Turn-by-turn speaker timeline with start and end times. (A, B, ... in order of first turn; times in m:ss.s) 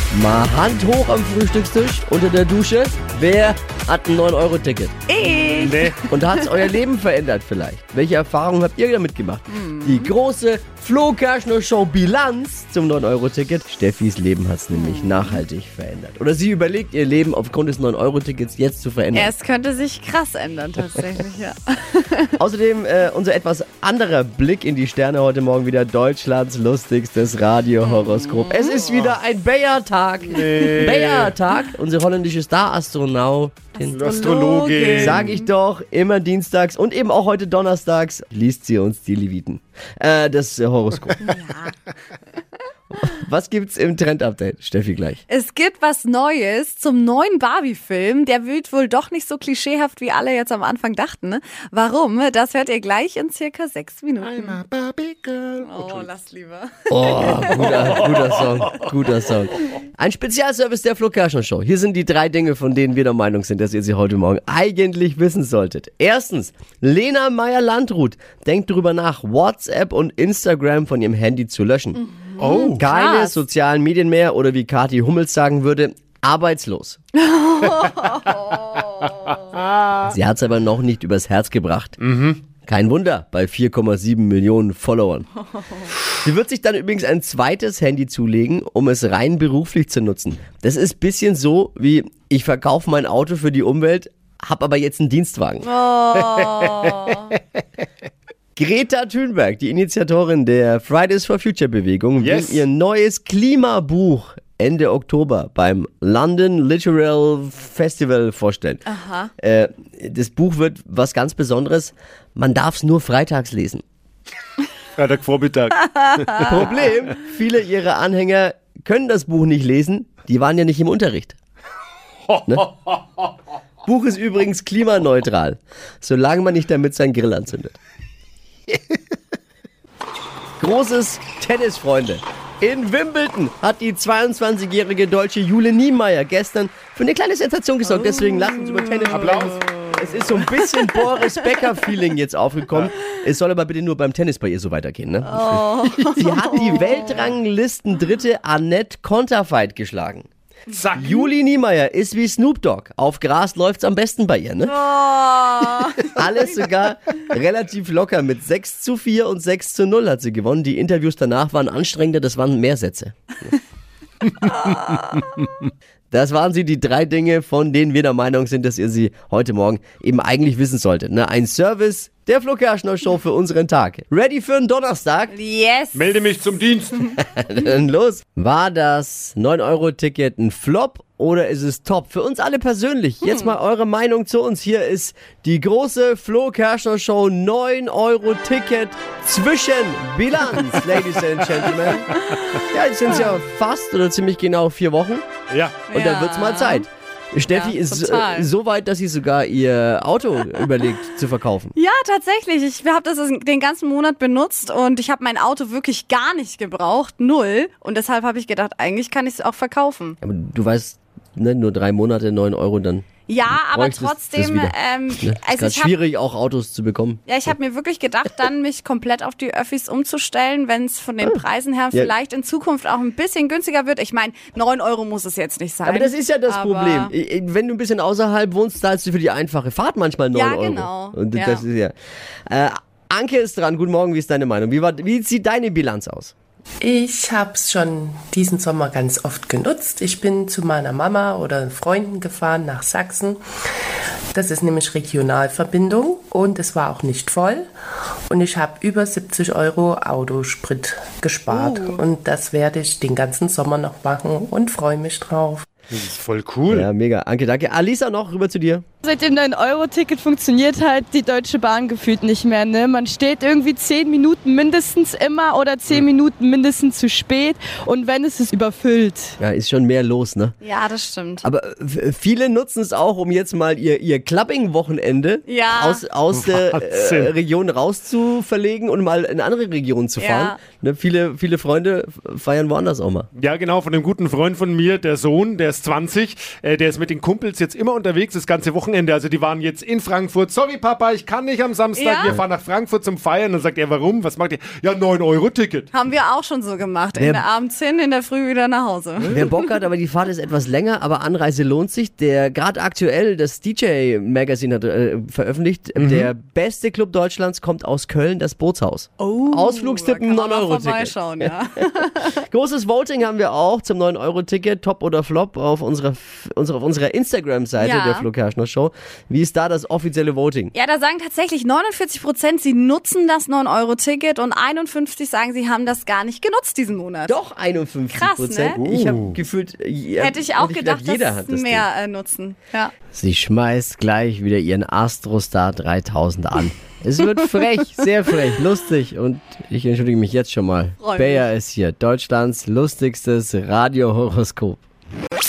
0:00.1-0:04.9 A
0:05.1-0:06.5 B
0:05.6-0:06.0 C
0:06.1-0:19.3 A
0:09.5-0:10.1 B
0:14.7-0:15.4 B
0:19.1-0:22.3 B
0:22.4-0:34.0 A
0:28.2-0:28.7 B
0:30.3-0:31.3 C
0:33.8-0:35.4 C
0:34.0-0:35.4 B
0:34.8-0:41.2 A
0:41.2-0:41.7 B
0:42.9-0:45.2 A
0:45.3-0:54.6 B
0:54.2-0:56.1 C
0:55.6-0:57.7 B
0:56.9-1:12.0 A
1:12.3-1:13.4 B
1:12.4-1:12.8 C
1:12.6-1:17.0 A
1:17.3-1:19.0 B
1:19.3-1:20.1 C
1:20.0-1:22.0 A
1:22.0-1:22.4 C
1:22.6-1:25.3 A
1:26.2-1:35.7 A
1:35.6-1:37.3 B
1:38.6-1:48.8 A
1:42.2-1:42.6 C
1:48.8-1:49.3 B
1:49.4-1:53.8 A
1:55.0-1:56.7 C
1:56.4-2:01.4 A
2:02.3-2:03.3 C
2:03.8-2:07.8 A
2:08.7-2:09.0 C
2:10.6-2:30.3 A
2:17.9-2:19.9 B
2:19.0-2:19.6 C
2:20.5-2:21.5 B
2:25.3-2:27.3 B
2:30.7-2:31.3 C
2:31.0-2:34.8 A
2:34.7-2:36.2 B
2:36.1-2:43.5 A
2:46.1-2:55.3 A
2:55.3-2:56.2 B
2:55.9-2:57.0 C
2:57.2-3:12.1 A
3:03.2-3:03.5 B
3:12.7-3:15.3 A
3:13.1-3:13.4 B
3:15.5-3:15.8 C
3:15.9-3:16.9 B
3:15.9-3:21.7 A
3:17.5-3:18.5 B
3:21.7-3:30.2 B
3:30.2-3:37.6 A
3:33.3-3:35.9 B
3:37.3-3:47.1 B
3:41.2-3:42.1 A
3:45.8-3:51.9 A
3:50.3-3:51.6 B
3:52.5-3:56.3 A
3:56.8-4:03.4 D
4:04.3-4:07.7 D
4:08.3-4:15.7 D
4:11.5-4:12.0 E
4:15.9-4:16.9 C
4:16.7-4:18.8 A
4:19.0-4:29.4 E
4:29.4-4:30.6 A
4:30.6-4:31.4 B
4:31.4-4:43.3 A
4:35.5-4:36.0 B
4:36.3-4:37.3 C
4:40.2-4:40.6 B
4:43.3-4:55.9 C
4:51.9-4:52.3 B
4:55.9-4:59.4 B
4:57.2-4:57.4 A
4:59.3-5:20.7 A
5:06.0-5:06.3 C
5:09.2-5:12.4 B
5:17.8-5:18.3 B
5:20.7-5:27.4 B
5:27.3-5:31.9 A
5:28.1-5:28.8 B
5:28.8-5:29.4 C
5:30.2-5:32.9 B
5:33.1-5:44.8 A
5:41.0-5:41.5 B